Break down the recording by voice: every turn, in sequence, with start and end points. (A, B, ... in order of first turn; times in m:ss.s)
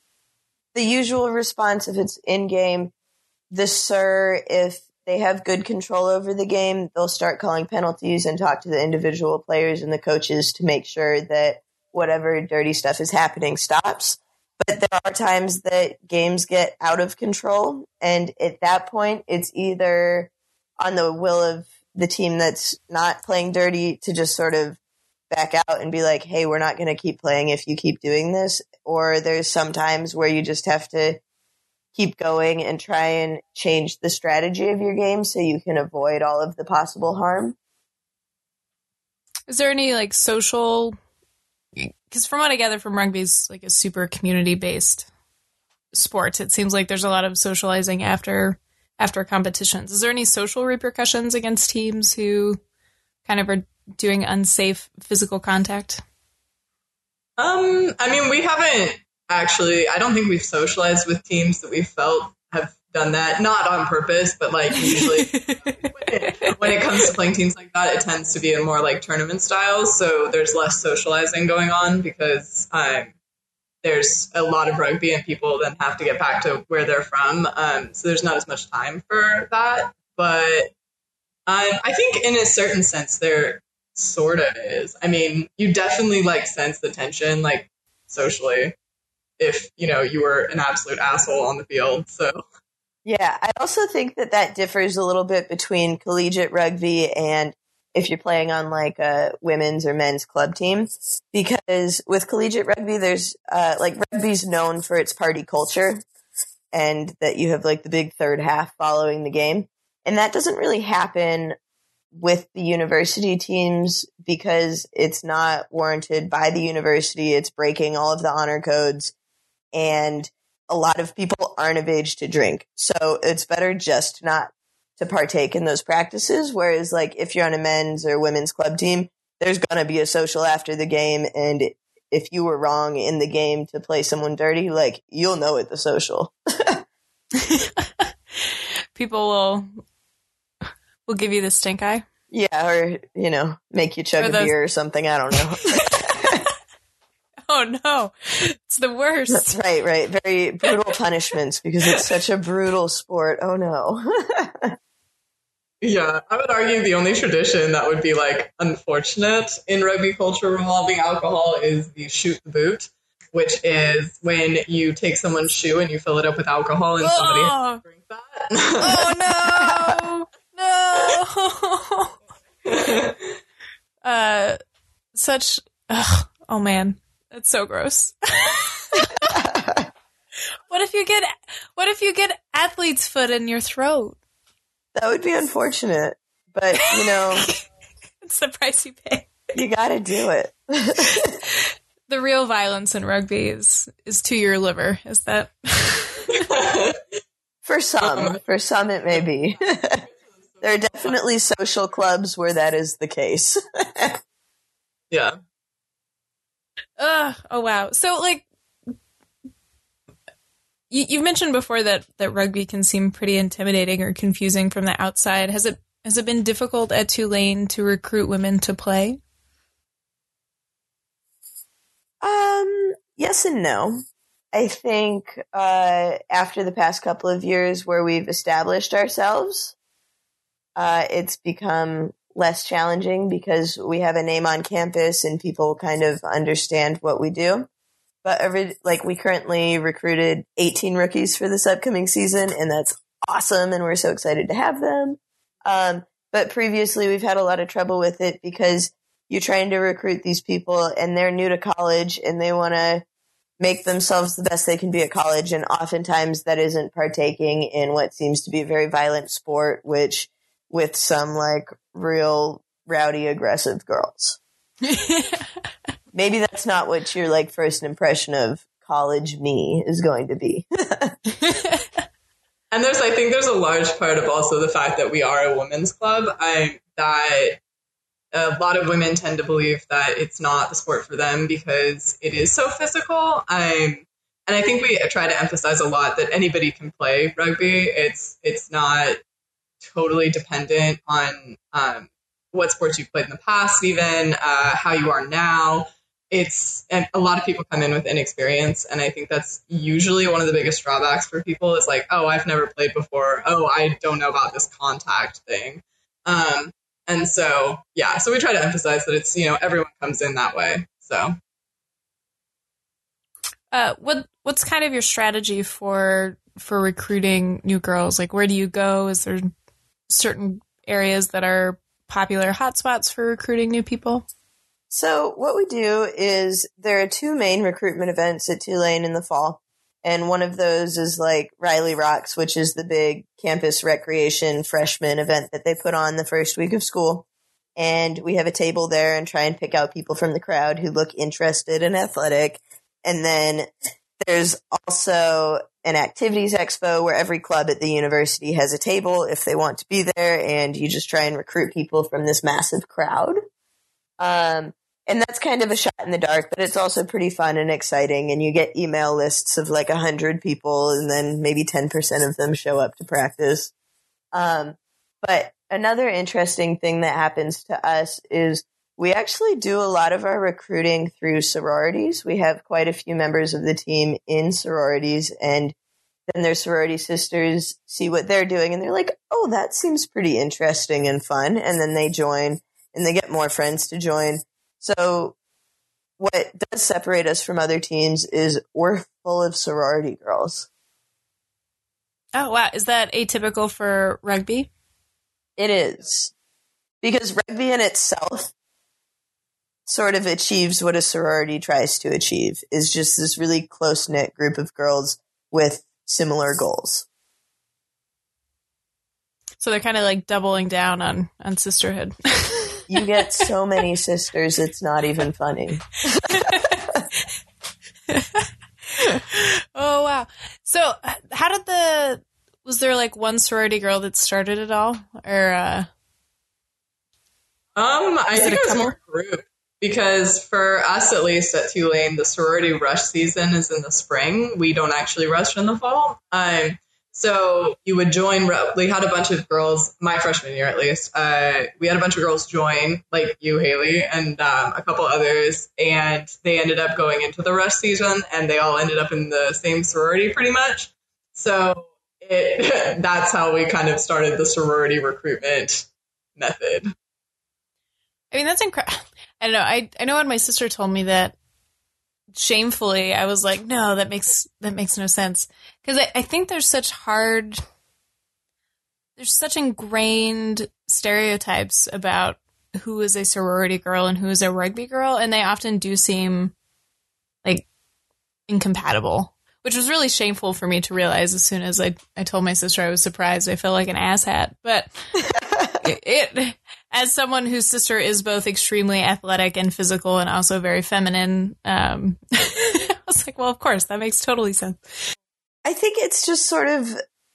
0:00.7-0:02.9 A
0:03.5-0:24.8 A
0:25.3-0:31.2 A
0:31.9-0:37.6 A
0:39.5-0:41.0 B
0:41.8-0:45.1 B
0:45.9-0:52.6 B
0:53.2-0:56.0 B
0:57.4-1:13.1 C
1:04.8-1:05.8 B
1:06.4-1:07.0 B
1:13.8-1:20.7 C
1:21.5-1:28.8 C
1:29.4-1:32.4 C
1:33.0-1:46.0 A
1:46.7-1:51.6 A
1:52.1-1:59.1 A
1:59.7-2:16.8 A
2:17.4-2:19.8 B
2:21.1-2:22.0 B
2:22.3-2:26.4 A
2:24.2-2:24.5 B
2:27.5-2:29.6 B
2:29.3-2:34.7 A
2:35.8-2:49.2 C
2:47.0-2:47.8 B
2:48.8-2:52.1 B
2:52.6-2:53.3 C
2:54.0-2:54.6 B
2:55.1-2:59.4 B
2:59.3-2:59.9 A
3:00.7-3:04.2 B
3:04.9-3:07.5 A
3:06.8-3:07.6 B
3:08.2-3:09.3 B
3:09.5-3:11.4 A
3:11.2-3:16.5 B
3:16.3-3:17.0 C
3:17.6-3:20.0 A
3:18.0-3:18.4 C
3:20.0-3:21.2 C
3:20.6-3:24.2 A
3:25.1-3:25.4 C
3:27.0-3:28.4 B
3:30.9-3:39.2 B
3:42.2-3:44.0 A
3:44.5-3:49.7 A
3:50.8-3:57.7 A
3:58.2-4:13.0 A
4:13.6-4:24.4 A
4:24.8-4:25.5 B
4:26.1-4:31.2 A
4:31.4-4:31.8 B
4:32.7-4:37.6 C
4:38.3-4:49.2 C
4:49.8-5:11.3 C
5:13.7-5:19.5 B
5:20.1-5:24.2 B
5:24.9-5:37.2 A
5:37.8-5:43.7 A
5:44.2-5:53.4 A
5:54.2-6:03.7 A
6:04.3-6:15.7 A
6:16.3-6:25.3 A
6:26.2-6:30.7 A
6:32.3-6:34.7 B
6:35.6-6:36.3 A
6:37.0-6:38.5 A
6:39.9-6:47.0 A
6:49.6-6:52.8 B
6:52.9-6:57.0 A
6:56.3-6:56.8 B
6:58.1-7:05.9 B
7:07.8-7:36.9 C
7:08.3-7:08.9 B
7:38.3-7:41.3 B
7:42.3-7:47.6 B
7:49.2-7:56.5 B
7:58.5-8:04.9 B
8:05.3-8:05.8 A
8:05.8-8:15.1 B
8:15.6-8:17.0 A